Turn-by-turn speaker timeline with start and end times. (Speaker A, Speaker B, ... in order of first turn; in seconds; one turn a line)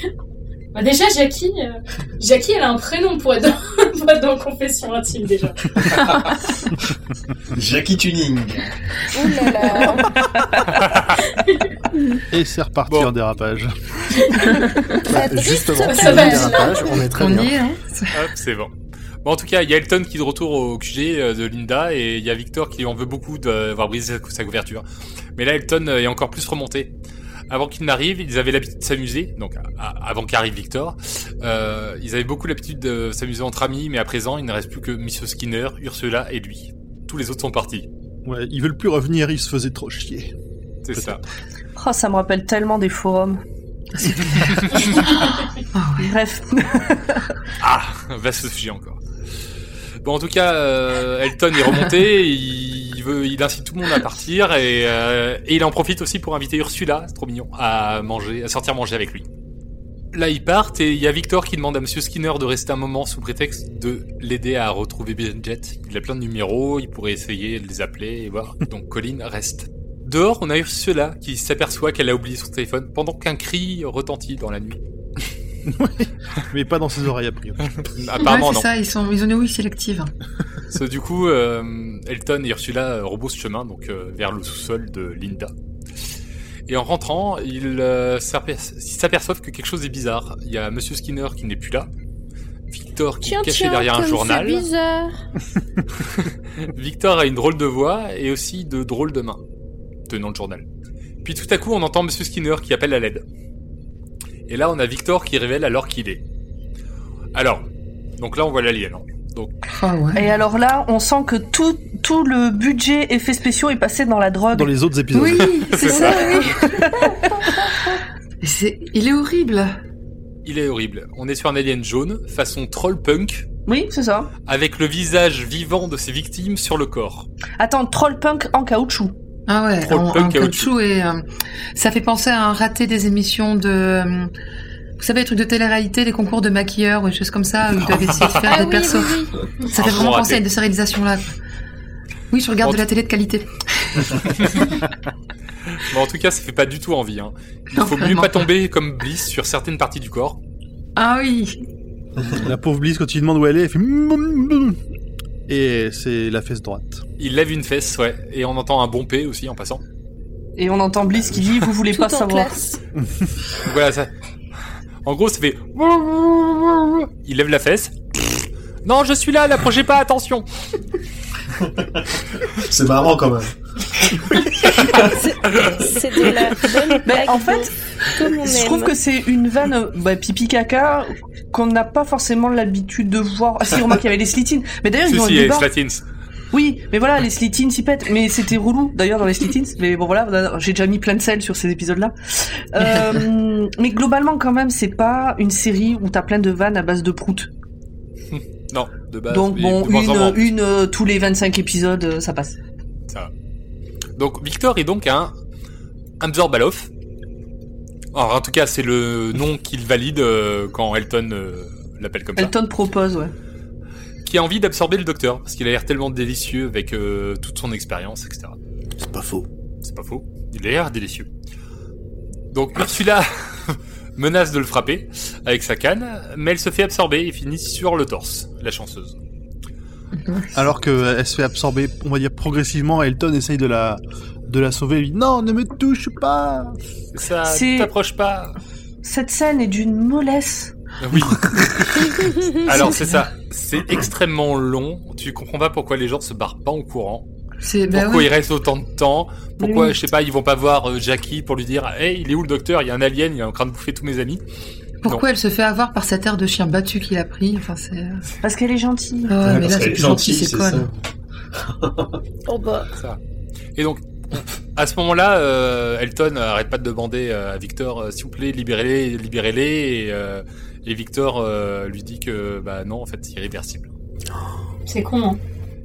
Speaker A: 0.7-5.7
Speaker B: 5.8-6.3
Speaker B: 7.5-8.7
Speaker C: 9.1-10.4
Speaker D: 10.6-11.2
Speaker A: 11.4-11.7
Speaker E: 12.3-13.7
Speaker A: 14.2-14.6
Speaker F: 15.0-17.6
Speaker C: 15.1-17.0
Speaker A: 15.7-16.9
Speaker G: 17.1-18.1
Speaker D: 18.1-18.7
Speaker D: 19.2-24.8
Speaker D: 25.4-26.9
Speaker D: 27.5-37.9
Speaker E: 38.2-40.3
Speaker D: 40.8-41.2
Speaker H: 41.8-43.4
Speaker G: 44.0-46.1
Speaker D: 44.4-44.9
Speaker H: 46.0-47.3
Speaker D: 47.6-49.0
Speaker D: 50.0-59.2
Speaker D: 60.1-74.8
Speaker E: 75.7-77.9
Speaker D: 77.8-78.7
Speaker G: 78.2-80.1
Speaker D: 80.7-85.5
Speaker D: 86.7-91.9
Speaker D: 92.7-94.7
Speaker C: 93.2-95.2
Speaker D: 96.1-99.4
Speaker D: 100.1-100.7
Speaker D: 101.2-103.2
Speaker D: 104.5-106.2
Speaker D: 107.3-107.6
Speaker D: 108.2-109.5
Speaker G: 109.7-110.4
Speaker H: 110.2-114.7
Speaker E: 114.5-115.7
Speaker G: 115.1-117.5
Speaker D: 115.7-116.4
Speaker H: 116.6-117.7
Speaker G: 118.4-119.8
Speaker D: 120.4-123.5
Speaker H: 123.7-124.3
Speaker D: 124.5-127.3
Speaker H: 127.6-129.1
Speaker G: 129.5-134.3
Speaker D: 129.8-130.7
Speaker G: 135.0-141.3
Speaker D: 138.1-138.4
Speaker C: 138.4-139.3
Speaker D: 139.7-140.4
Speaker G: 142.3-144.7
Speaker D: 144.4-144.7
Speaker D: 145.7-150.4
Speaker G: 147.7-148.4
Speaker G: 150.9-151.6
Speaker E: 152.3-154.8
Speaker E: 155.5-157.0
Speaker D: 157.2-159.8
Speaker H: 160.6-162.6
Speaker C: 161.9-162.8
Speaker D: 163.6-164.1
Speaker D: 165.0-170.4
Speaker B: 171.6-173.5
Speaker D: 174.7-175.8
Speaker B: 174.7-175.2
Speaker C: 174.9-178.9
Speaker H: 177.0-185.7
Speaker D: 185.1-186.0
Speaker H: 186.5-197.5
Speaker D: 198.3-200.5
Speaker H: 199.3-202.6
Speaker D: 204.2-205.3
Speaker D: 206.2-206.9
Speaker D: 208.1-212.5
Speaker H: 212.4-213.3
Speaker D: 214.2-218.6
Speaker F: 218.9-219.5
Speaker D: 219.8-221.3
Speaker D: 222.5-229.2
Speaker G: 230.2-230.6
Speaker E: 230.5-236.8
Speaker D: 237.1-238.6
Speaker H: 237.4-237.9
Speaker H: 239.0-240.7
Speaker D: 241.0-247.2
Speaker G: 242.8-243.2
Speaker G: 247.6-248.3
Speaker D: 247.9-254.4
Speaker H: 249.6-250.0
Speaker G: 255.0-258.2
Speaker H: 258.4-259.4
Speaker G: 259.3-260.9
Speaker B: 259.4-260.9
Speaker B: 261.7-262.1
Speaker C: 262.5-262.9
Speaker D: 263.8-273.9
Speaker A: 274.9-275.4